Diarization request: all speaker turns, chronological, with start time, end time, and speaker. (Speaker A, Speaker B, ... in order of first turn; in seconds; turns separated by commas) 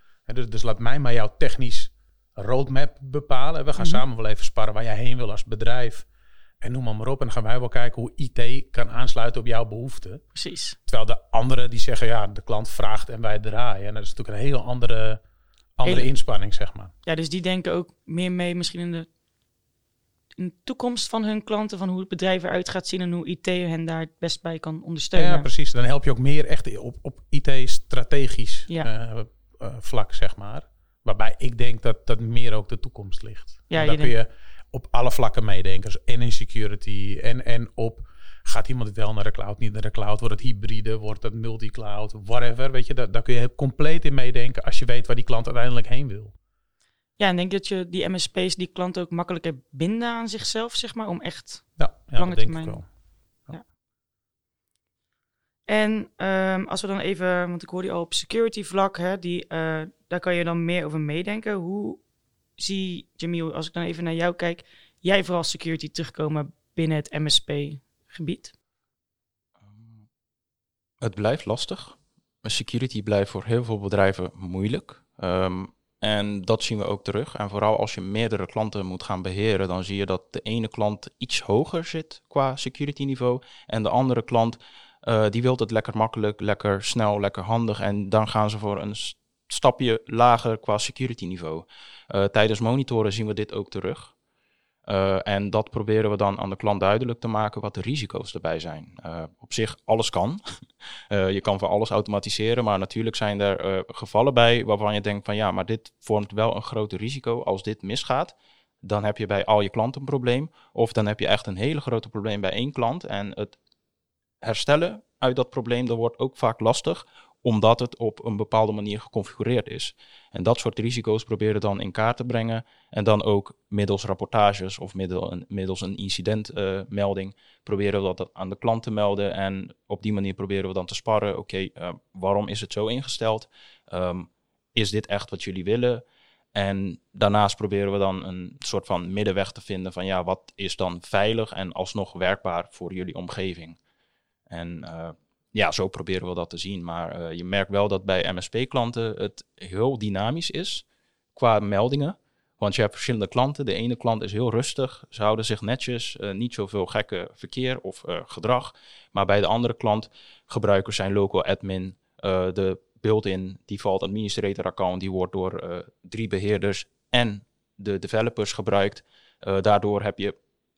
Speaker A: 0.2-6.1, Speaker B: 3.8-4.0, Speaker A: 6.6-10.2, Speaker B: 10.3-10.8, Speaker A: 10.9-15.2, Speaker A: 15.8-16.9, Speaker B: 15.8-16.1, Speaker B: 17.1-19.1, Speaker B: 20.4-25.5, Speaker A: 25.1-46.4, Speaker B: 33.7-34.1, Speaker B: 47.2-52.8, Speaker A: 51.8-52.9, Speaker B: 55.7-62.0, Speaker B: 62.6-68.5, Speaker C: 69.7-70.0, Speaker C: 71.0-94.1, Speaker C: 94.9-100.4, Speaker C: 101.1-113.6, Speaker C: 114.4-136.0, Speaker C: 136.5-143.8, Speaker C: 144.5-170.4